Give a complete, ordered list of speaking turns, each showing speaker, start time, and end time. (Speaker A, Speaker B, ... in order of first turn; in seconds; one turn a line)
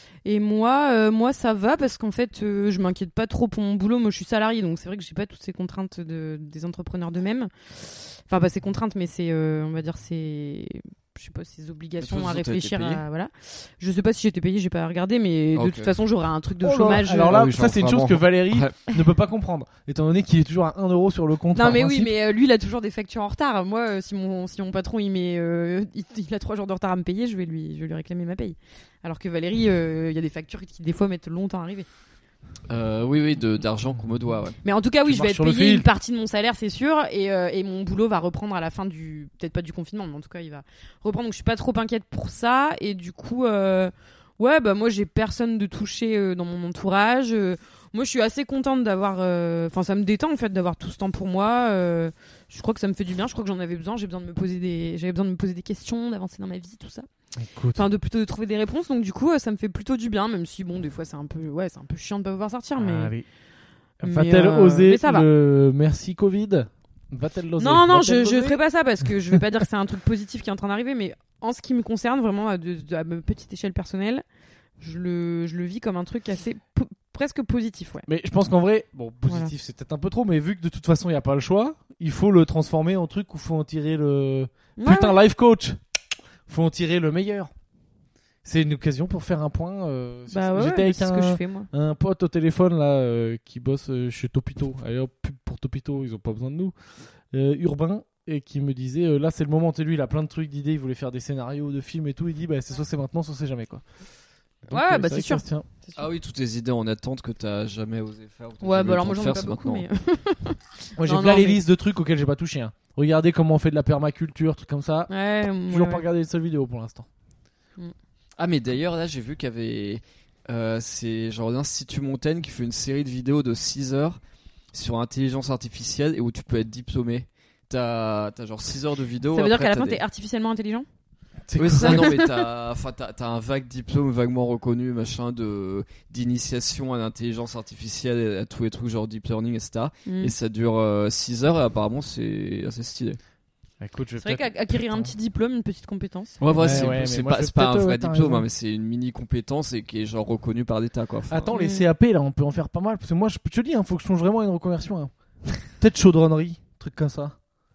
Speaker A: 0.2-17.4
Speaker B: 12.0-13.0
Speaker B: 15.5-15.9
Speaker C: 16.6-22.1
Speaker B: 17.3-18.8
Speaker A: 21.5-31.9
Speaker B: 32.7-34.6
Speaker A: 34.6-57.1
Speaker C: 35.0-35.9
Speaker C: 57.4-57.8
Speaker A: 57.7-63.1
Speaker C: 62.8-63.2
Speaker C: 64.0-68.6
Speaker A: 64.0-65.3
Speaker A: 67.6-74.2
Speaker A: 74.8-78.0
Speaker C: 78.0-85.8
Speaker A: 84.8-85.2
Speaker C: 86.5-87.5
Speaker C: 88.4-96.7
Speaker A: 90.3-91.7
Speaker C: 97.3-103.8
Speaker C: 104.6-105.7
Speaker A: 104.7-106.1
Speaker B: 106.0-109.8
Speaker A: 108.6-111.6
Speaker C: 111.0-115.1
Speaker A: 115.1-116.0
Speaker C: 115.7-117.1
Speaker B: 118.4-124.2
Speaker B: 124.7-130.0
Speaker A: 129.3-130.8
Speaker C: 131.4-132.2
Speaker B: 131.6-143.2
Speaker A: 131.8-132.4
Speaker A: 140.1-140.3
Speaker C: 143.8-145.1
Speaker A: 144.2-146.9
Speaker B: 146.4-151.5
Speaker C: 146.5-148.4
Speaker C: 151.3-157.4
Speaker A: 151.5-151.9